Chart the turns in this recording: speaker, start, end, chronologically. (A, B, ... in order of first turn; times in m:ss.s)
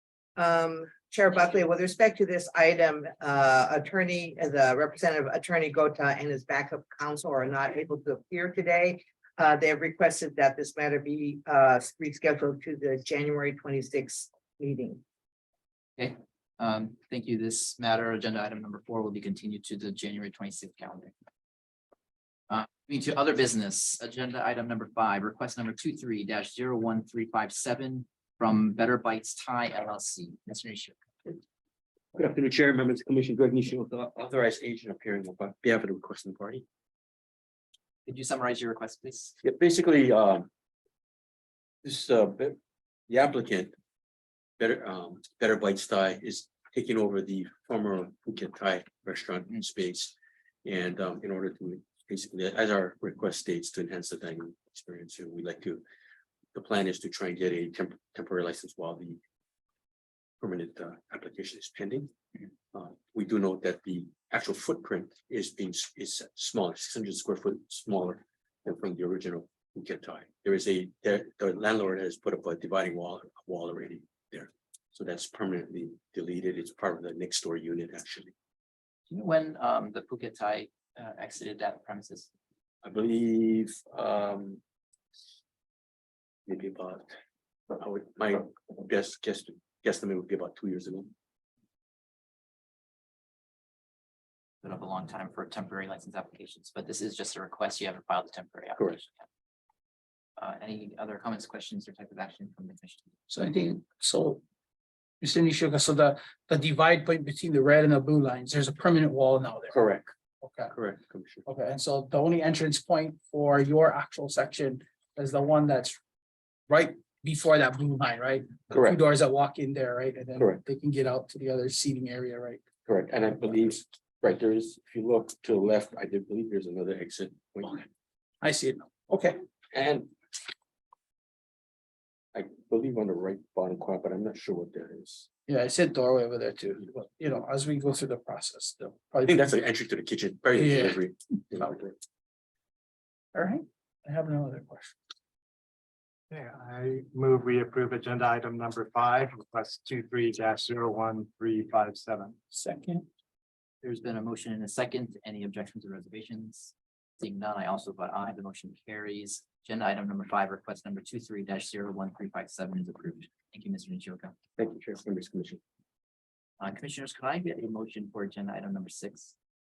0:00.4-0:15.0 A
0:16.0-0:21.1 B
0:22.5-0:31.4 B
0:32.1-0:36.6 C
0:38.1-0:39.3 B
0:39.4-0:40.5 C
0:41.8-0:42.6 C
0:43.1-0:43.7 C
0:44.6-0:55.8 C
0:56.5-0:59.2 C
1:00.4-1:02.1 C
1:02.7-1:18.3 C
1:19.1-1:22.3 B
1:22.8-1:24.6 C
1:26.5-1:27.2 C
1:27.7-1:31.1 C
1:34.6-1:39.2 B
1:40.4-1:43.2 B
1:43.3-1:44.4 D
1:45.2-1:49.8 D
1:49.7-1:50.1 C
1:50.4-1:50.7 D
1:50.7-1:51.4 C
1:51.4-1:56.0 D
1:56.7-2:02.6 D
1:58.7-1:59.0 C
2:02.9-2:07.8 C
2:08.4-2:09.4 D
2:09.7-2:10.1 C
2:12.3-2:15.3 C
2:15.5-2:19.5 D
2:19.2-2:22.0 C
2:20.6-2:21.0 D
2:23.3-2:25.0 D
2:26.3-2:32.4 E
2:32.5-2:33.0 D
2:33.8-2:44.4 B
2:44.6-2:45.6 C
2:46.6-2:49.3 B